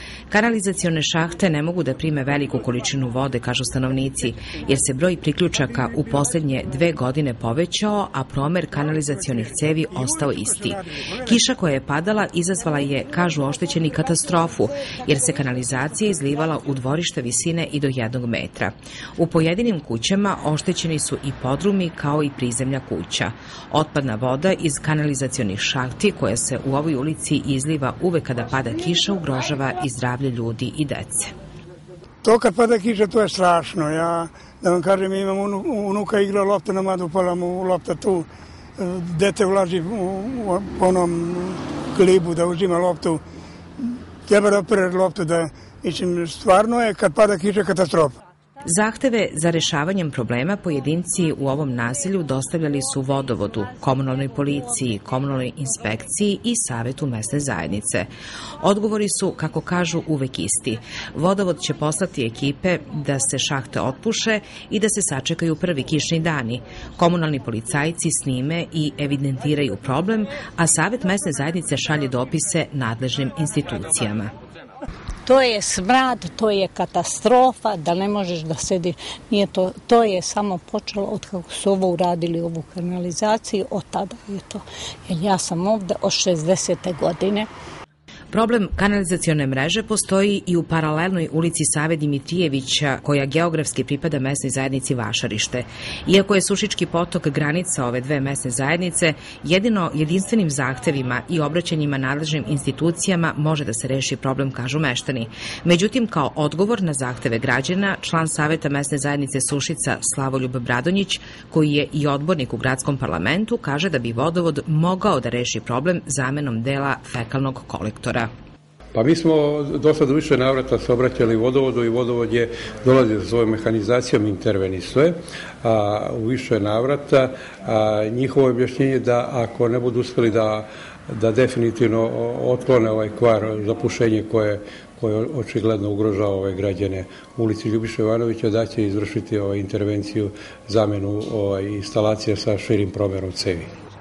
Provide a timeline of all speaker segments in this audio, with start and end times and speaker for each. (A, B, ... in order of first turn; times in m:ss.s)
0:00.3-0:31.3 A
0:32.2-0:43.2 B
0:43.8-0:48.2 B
0:48.6-0:58.1 A
0:58.6-1:14.3 A
1:15.3-1:27.5 C
1:28.3-1:58.3 A
1:58.9-2:23.7 D